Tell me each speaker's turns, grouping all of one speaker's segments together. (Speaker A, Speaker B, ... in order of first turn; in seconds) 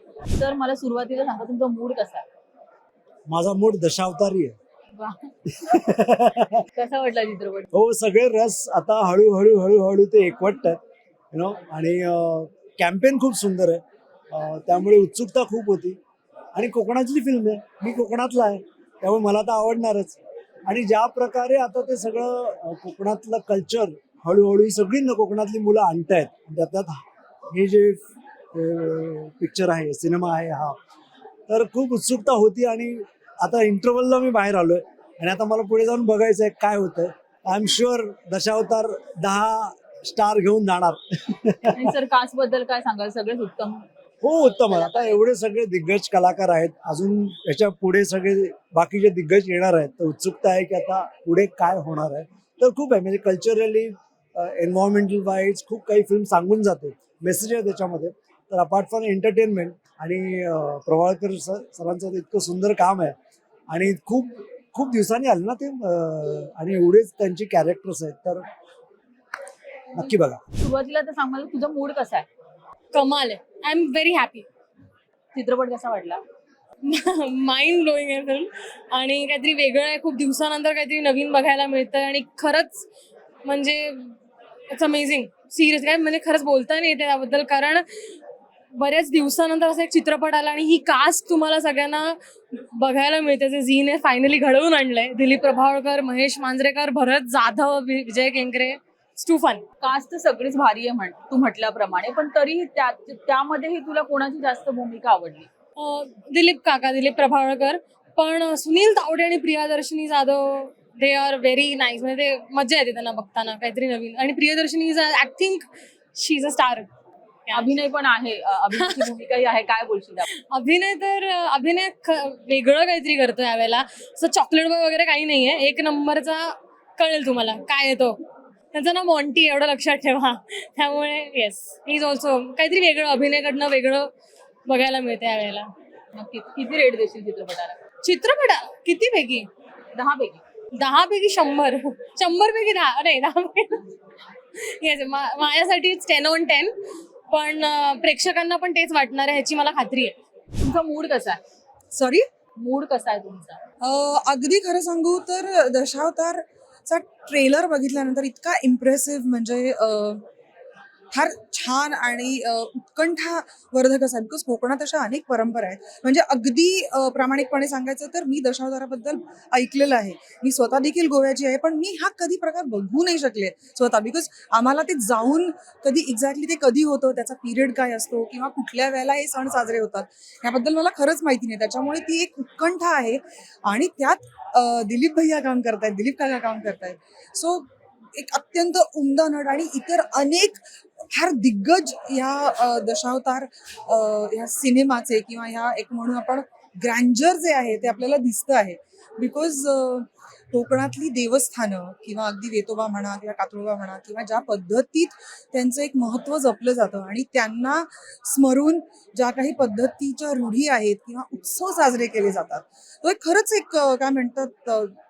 Speaker A: 0.4-2.2, 6.8-7.7, 41.7-43.8, 44.7-45.0, 70.6-72.3, 75.3-76.2, 99.8-105.5, 117.5-120.3, 136.2-137.8, 139.9-140.4, 150.6-151.4, 152.6-153.6
Speaker B: 3.3-4.6, 5.7-6.6, 7.7-10.8, 11.3-16.0, 16.5-28.0, 28.5-30.8, 31.5-41.8, 44.2-63.1, 63.7-68.5, 69.9-70.4
Speaker C: 72.9-74.5, 76.9-82.8, 83.5-84.1, 84.7-87.8, 88.8-92.2, 92.8-99.6, 105.8-116.9, 117.5-117.7, 118.7-119.1, 120.3-128.2, 128.7-134.1, 134.7-135.7, 138.0-139.5, 140.8-143.8, 144.8-146.7, 147.3-150.2
Speaker D: 153.9-160.2, 161.1-187.7, 188.2-190.6, 191.1-214.9